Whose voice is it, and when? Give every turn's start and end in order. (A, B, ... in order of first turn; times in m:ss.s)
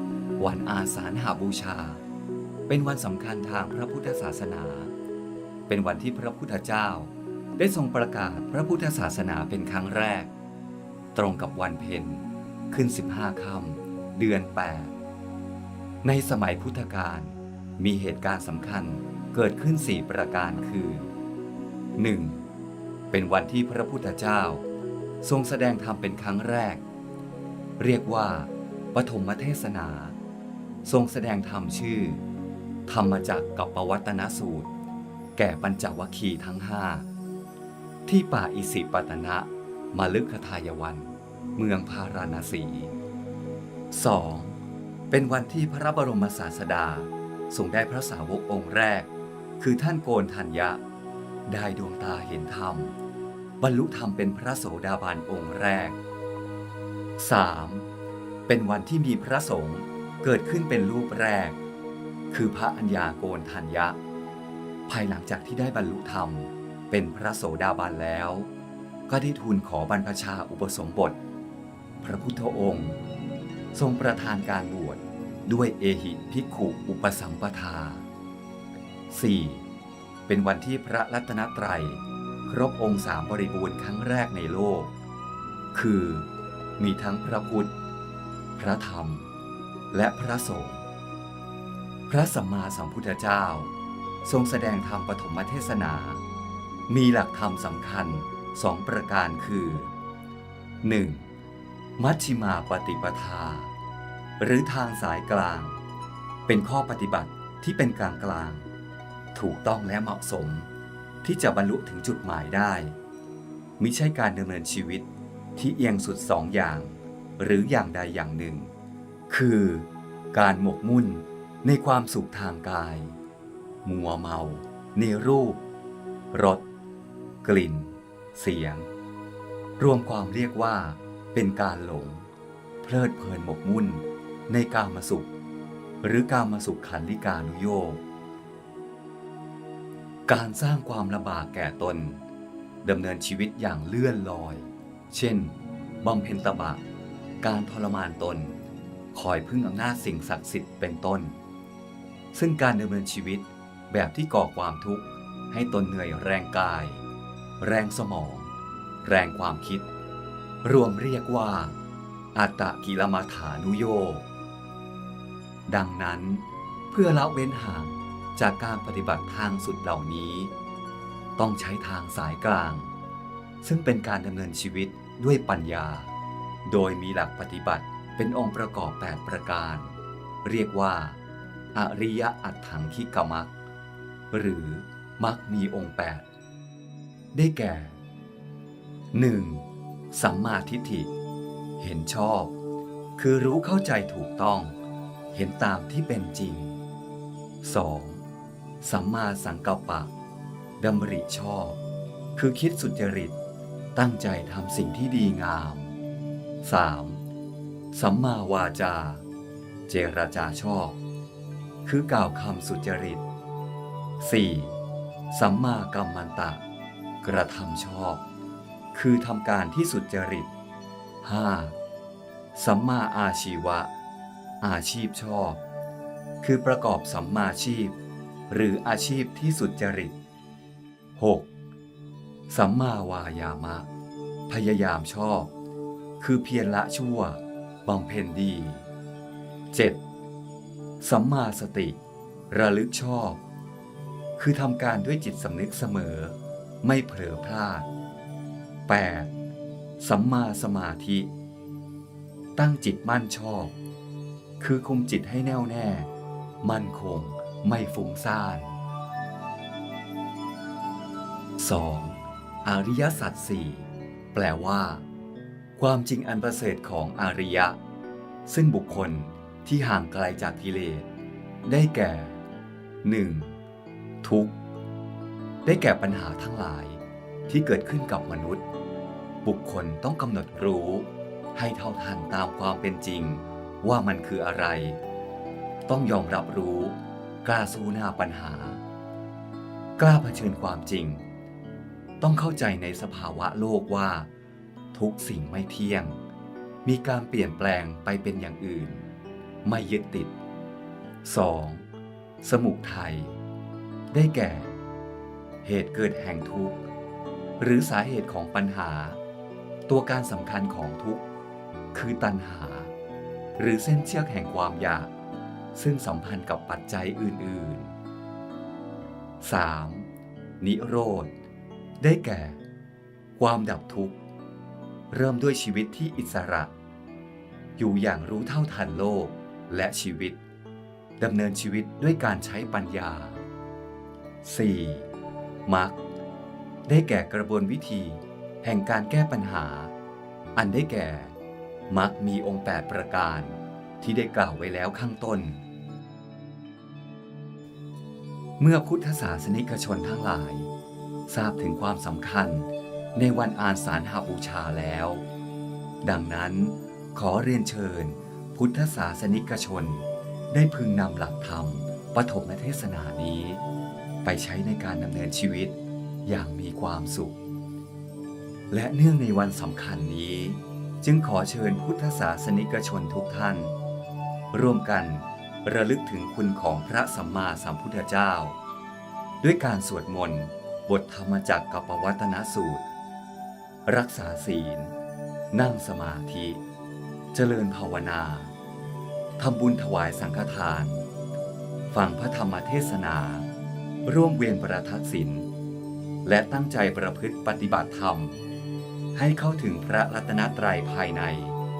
0:00.4-0:02.0 A
0:02.7-0:04.9 A
0:05.7-0:10.3 A
0:11.1-0:15.0 A
0:16.0-0:21.1 A
0:22.0-0:22.4 A
0:23.1-0:24.6 A
0:25.2-0:26.8 A
0:27.8-0:30.2 A
0:30.8-0:32.2 A
0:32.9-0:34.7 A
0:35.4-0:37.1 A
0:38.0-0:42.9 A
0:43.9-0:44.6 A
0:45.1-0:50.8 A
0:51.5-0:53.0 A
0:53.6-0:56.0 A
0:57.2-0:57.9 A
0:58.5-1:01.6 A
1:02.3-1:04.0 A
1:04.9-1:08.5 A
1:09.1-1:11.2 A
1:12.0-1:13.0 A
1:13.7-1:18.1 A
1:19.1-1:19.7 A
1:20.3-1:24.9 A
1:25.7-1:27.7 A
1:28.6-1:29.3 A
1:29.9-1:30.8 A
1:32.1-1:36.2 A
1:36.9-1:39.9 A
1:40.8-1:41.3 A
1:42.0-1:43.7 A
1:44.4-1:45.8 A
1:46.4-1:48.7 A
1:49.3-1:50.7 A
1:51.2-1:53.0 A
1:53.8-1:58.7 A
1:59.3-2:03.2 A
2:03.8-2:05.6 A
2:06.3-2:06.6 A
2:07.4-2:08.9 A
2:09.8-2:12.3 A
2:12.8-2:15.3 A
2:16.0-2:18.0 A
2:20.3-2:22.2 A
2:22.8-2:26.8 A
2:27.4-2:28.6 A
2:29.1-2:31.4 A
2:32.3-2:37.0 A
2:37.6-2:38.5 A
2:39.0-2:39.9 A
2:40.6-2:41.8 A
2:42.3-2:44.3 A
2:45.7-2:50.5 A
2:51.4-2:52.9 A
2:53.6-2:56.1 A
2:56.6-3:01.2 A
3:01.7-3:03.5 A
3:04.3-3:06.3 A
3:07.3-3:08.0 A
3:09.1-3:11.1 A
3:11.8-3:12.6 A
3:13.2-3:14.8 A
3:15.3-3:16.8 A
3:17.6-3:18.2 A
3:18.8-3:20.1 A
3:20.8-3:21.8 A
3:22.3-3:23.4 A
3:24.0-3:26.0 A
3:26.6-3:27.2 A
3:27.9-3:29.2 A
3:29.9-3:31.0 A
3:31.8-3:33.2 A
3:34.2-3:34.8 A
3:35.3-3:36.6 A
3:37.2-3:38.2 A
3:38.9-3:40.5 A
3:41.2-3:41.8 A
3:42.5-3:43.9 A
3:44.6-3:45.6 A
3:46.4-3:48.0 A
3:48.5-3:50.2 A
3:51.2-3:51.5 A
3:52.5-3:53.9 A
3:54.5-3:55.5 A
3:56.2-3:58.9 A
3:59.7-4:00.0 A
4:01.0-4:02.0 A
4:02.5-4:03.4 A
4:04.4-4:07.9 A
4:08.9-4:09.3 A
4:10.0-4:11.3 A
4:12.6-4:13.8 A
4:14.6-4:16.1 A
4:16.6-4:18.8 A
4:21.6-4:25.0 A
4:25.8-4:27.8 A
4:28.4-4:31.1 A
4:31.6-4:32.4 A
4:33.0-4:33.6 A
4:34.2-4:34.6 A
4:35.6-4:38.6 A
4:39.4-4:45.0 A
4:45.9-4:48.8 A
4:50.0-4:51.2 A
4:52.2-4:54.3 A
4:54.9-4:56.2 A
4:56.8-4:59.1 A
4:59.6-5:00.3 A
5:01.2-5:01.9 A
5:02.4-5:03.4 A
5:04.1-5:04.8 A
5:05.6-5:06.8 A
5:07.6-5:09.2 A
5:09.9-5:11.2 A
5:11.9-5:12.9 A
5:13.6-5:15.1 A
5:15.7-5:17.9 A
5:19.4-5:21.3 A
5:22.0-5:22.6 A
5:23.4-5:24.2 A
5:25.1-5:26.7 A
5:27.8-5:30.4 A
5:31.2-5:33.4 A
5:34.4-5:35.1 A
5:35.6-5:36.0 A
5:36.8-5:39.9 A
5:40.5-5:41.4 A
5:41.9-5:45.6 A
5:48.6-5:50.7 A
5:51.3-5:55.2 A
5:56.0-6:03.6 A
6:04.2-6:07.4 A
6:08.7-6:13.7 A
6:14.5-6:18.6 A
6:19.4-6:22.8 A
6:23.8-6:24.9 A
6:25.5-6:26.6 A
6:27.3-6:28.5 A
6:29.4-6:31.1 A
6:31.9-6:33.5 A
6:34.0-6:35.5 A
6:36.2-6:38.4 A
6:39.1-6:41.6 A